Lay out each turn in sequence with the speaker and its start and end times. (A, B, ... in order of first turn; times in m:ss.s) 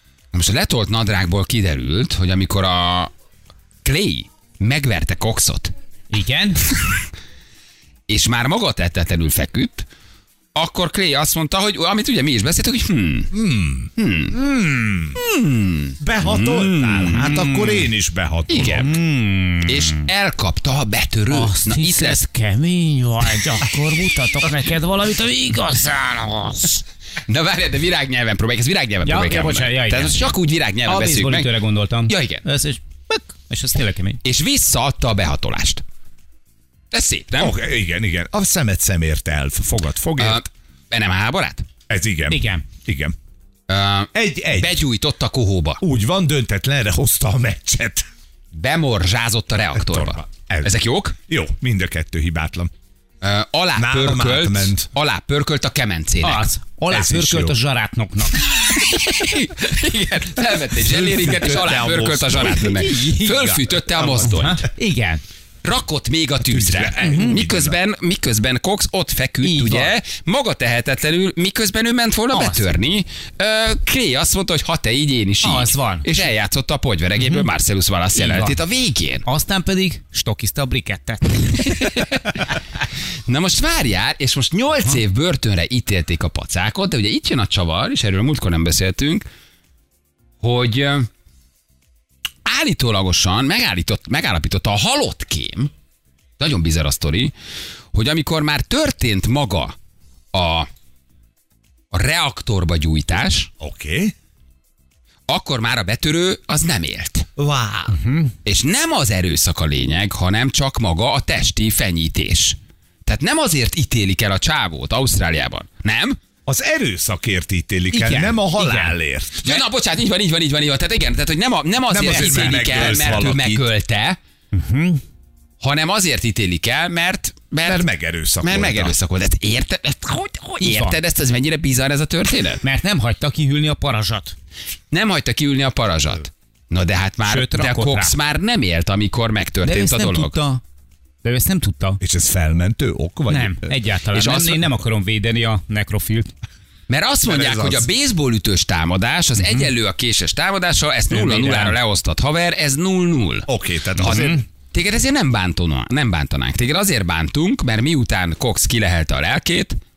0:00.3-0:03.1 A
0:03.8-0:05.7 A
0:06.1-0:06.6 B
0:08.1-0:09.9 A
0:10.6-0:13.3 A
0:13.3-0:15.2 C
0:14.0-0:14.4 A
0:15.2-0:17.2 A
0:16.0-0:18.9 C
0:17.1-0:17.9 B
0:18.5-0:18.9 A
0:18.7-0:20.0 B
0:19.6-0:22.2 A
0:21.3-0:26.8 B
0:27.3-0:32.4 A
0:29.0-0:34.2 B
0:34.2-0:35.8 A
0:36.9-0:37.5 A
0:37.4-0:40.4 C
0:40.2-0:41.7 A
0:41.9-0:43.2 C
0:42.3-0:42.6 B
0:43.7-0:45.8 A
0:44.1-0:44.8 C
0:45.8-0:48.0 C
0:48.5-0:51.2 A
0:49.7-0:50.7 C
0:51.3-0:52.7 C
0:53.2-0:56.5 A
0:53.8-0:54.9 C
0:56.2-0:58.5 B
0:56.9-0:57.6 C
0:58.4-1:04.7 A
1:00.8-1:03.0 C
1:02.8-1:05.2 B
1:05.6-1:19.2 A
1:06.4-1:07.8 C
1:07.0-1:07.4 B
1:09.4-1:10.0 B
1:12.3-1:12.7 B
1:15.4-1:16.2 B
1:17.2-1:17.5 B
1:18.1-1:18.6 B
1:19.2-1:22.3 B
1:21.7-1:22.4 A
1:23.3-1:29.3 A
1:30.4-1:31.1 A
1:32.4-1:35.7 A
1:36.4-1:37.3 A
1:37.9-1:39.8 A
1:40.3-1:40.7 A
1:41.9-1:43.5 A
1:43.6-1:44.1 C
1:45.3-1:47.3 A
1:47.4-1:48.0 C
1:47.9-1:48.3 B
1:48.4-1:56.2 A
1:56.5-1:59.6 C
1:57.9-1:59.0 B
1:59.4-2:04.2 A
2:01.9-2:03.7 C
2:04.5-2:05.0 B
2:05.6-2:07.9 A
2:07.6-2:09.0 C
2:08.4-2:12.6 A
2:10.6-2:11.0 B
2:12.6-2:14.4 B
2:14.9-2:20.3 A
2:17.2-2:18.2 B
2:19.6-2:20.6 B
2:21.2-2:22.0 B
2:22.0-2:23.7 C
2:23.3-2:26.3 B
2:24.1-2:24.6 A
2:26.9-2:33.5 A
2:27.2-2:27.9 C
2:31.1-2:31.8 B
2:33.5-2:34.4 C
2:34.0-2:34.4 B
2:34.0-2:39.8 A